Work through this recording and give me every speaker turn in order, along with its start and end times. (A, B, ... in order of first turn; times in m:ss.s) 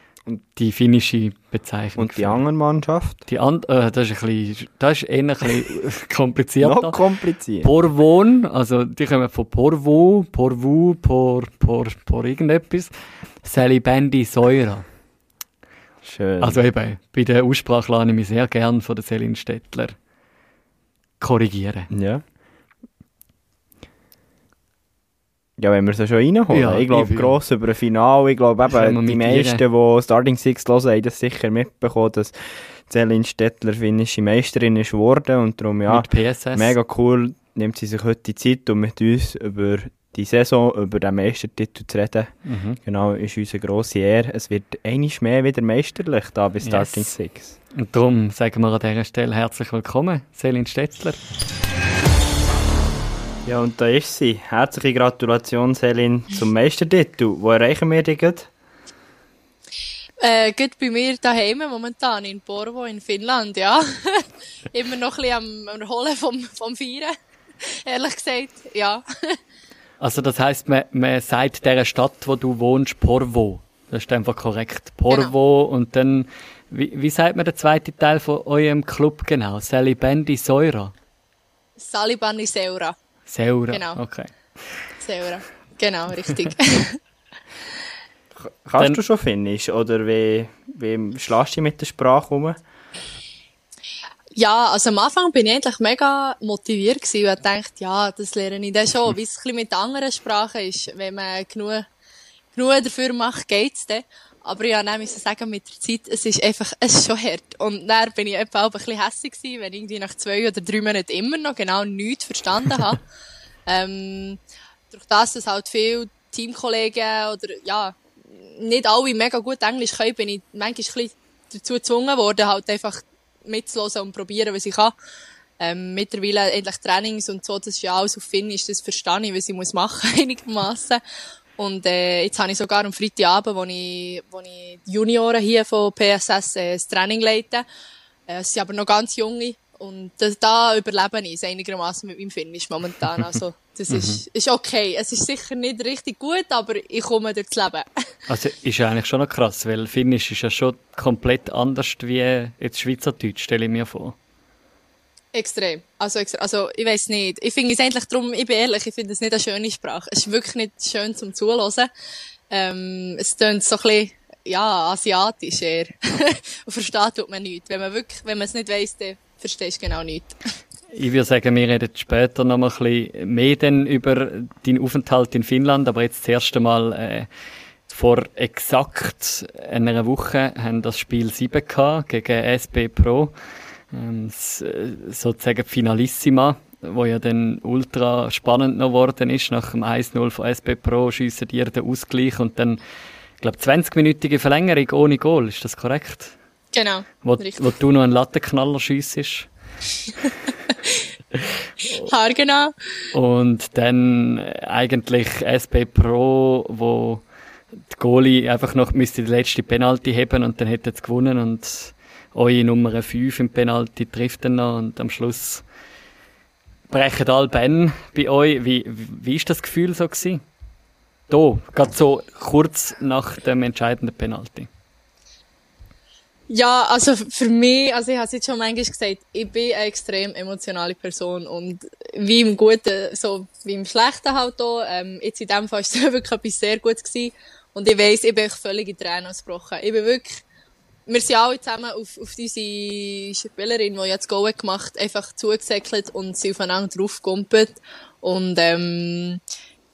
0:00.5-0:02.4 A
0:02.0-0:03.2 B
0:03.3-0:07.0 A
0:06.6-0:07.7 B
0:07.6-0:14.8 A
0:16.0-0:16.6 B
0:16.4-0:20.0 A
0:21.2-0:21.9 A
0:21.9-0:22.2 B
0:25.6-0:47.6 B
0:26.5-0:27.4 A
0:28.7-0:29.6 A
0:35.9-0:36.7 A
0:42.4-0:42.8 A
0:46.6-0:47.1 A
0:47.7-0:51.2 A
0:53.4-0:58.5 B
1:00.2-1:09.4 C
1:10.0-1:20.9 A
1:15.1-1:15.4 C
1:21.8-1:23.0 C
1:23.3-1:24.8 A
1:23.7-1:24.0 C
1:25.0-1:27.0 C
1:28.4-1:32.6 B
1:34.4-1:41.8 C
1:42.5-1:53.0 C
1:53.7-1:54.4 C
1:54.9-2:04.9 C
2:05.6-2:11.0 C
2:11.6-2:17.6 C
2:18.3-2:27.9 C
2:23.9-2:24.2 A
2:28.3-2:34.2 A
2:35.3-2:41.9 C
2:42.5-2:50.4 C
2:50.9-2:57.3 A
2:57.9-3:03.4 A
3:03.9-3:12.8 A
3:13.4-3:16.3 A
3:16.7-3:17.7 C
3:17.2-3:19.5 A
3:21.9-3:22.7 C
3:23.1-3:27.2 A
3:27.9-3:35.6 A
3:36.9-3:40.4 A
3:41.3-3:44.7 A
3:46.5-4:00.4 C
4:01.1-4:09.4 C